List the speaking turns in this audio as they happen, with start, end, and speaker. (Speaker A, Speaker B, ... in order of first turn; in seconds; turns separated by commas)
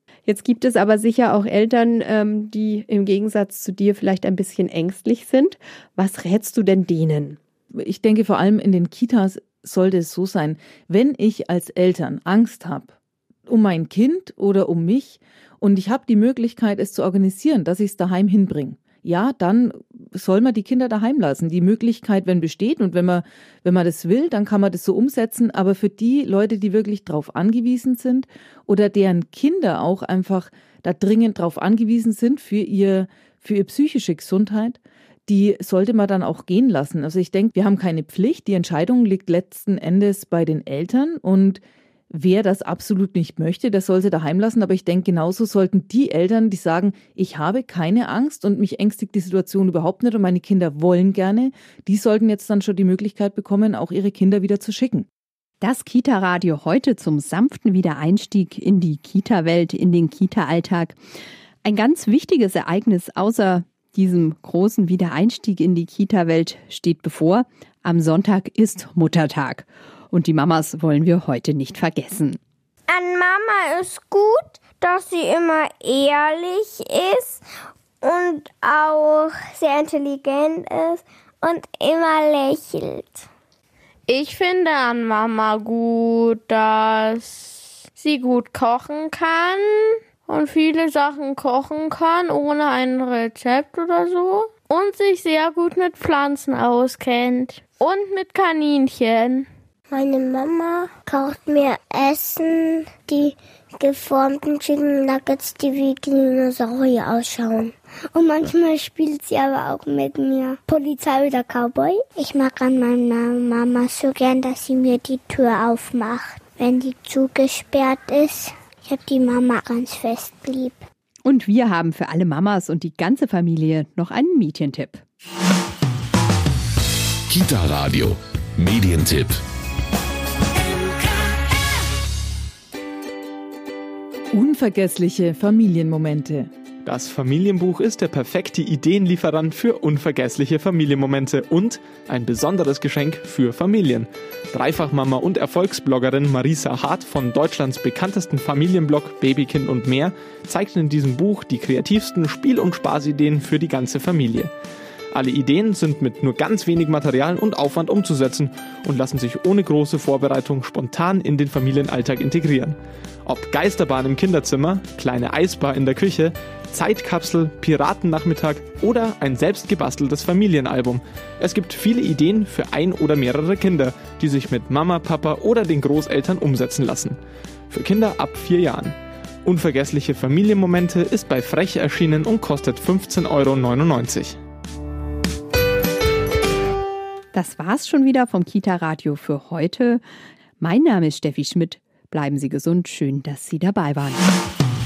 Speaker A: 0.3-7.4, Speaker B: 7.7-12.9, Speaker B: 13.5-55.1, Speaker A: 55.6-61.0, Speaker A: 61.6-72.4, Speaker C: 72.9-77.4, Speaker C: 78.0-83.3, Speaker D: 84.1-99.5, Speaker E: 99.9-120.8, Speaker A: 121.2-125.0, Speaker F: 127.3-129.4, Speaker B: 134.3-136.5, Speaker G: 136.8-154.5, Speaker G: 155.1-177.2, Speaker G: 177.7-184.4, Speaker A: 187.3-190.0, Speaker A: 190.6-194.2